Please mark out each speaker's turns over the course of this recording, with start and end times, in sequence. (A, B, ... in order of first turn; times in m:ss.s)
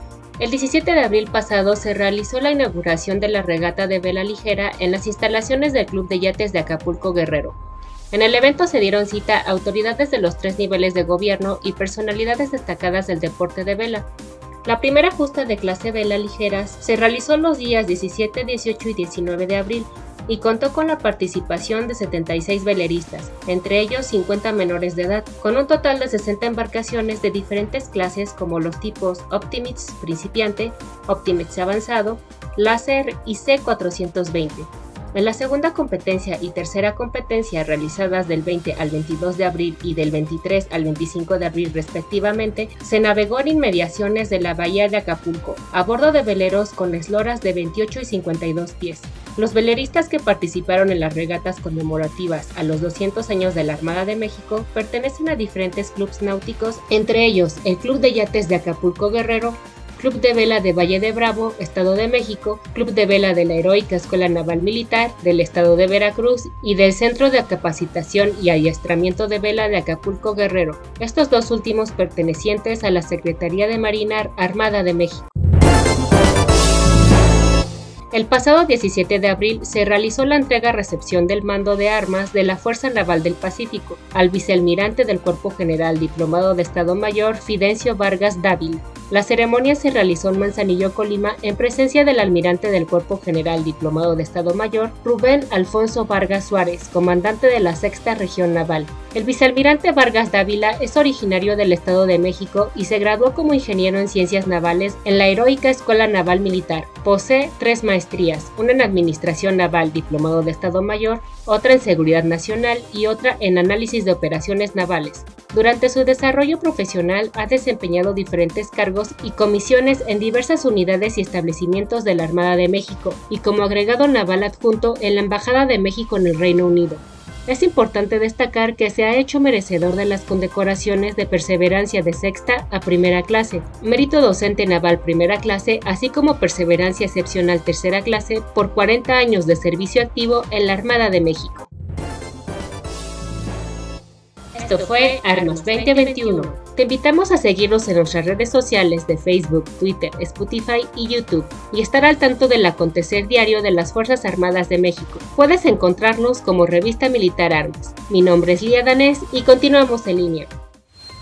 0:00.4-0:07.6 A
0:08.1-0:14.1 A
0:14.6-1:15.3 A
1:18.1-2:21.7 A
2:24.5-2:40.5 A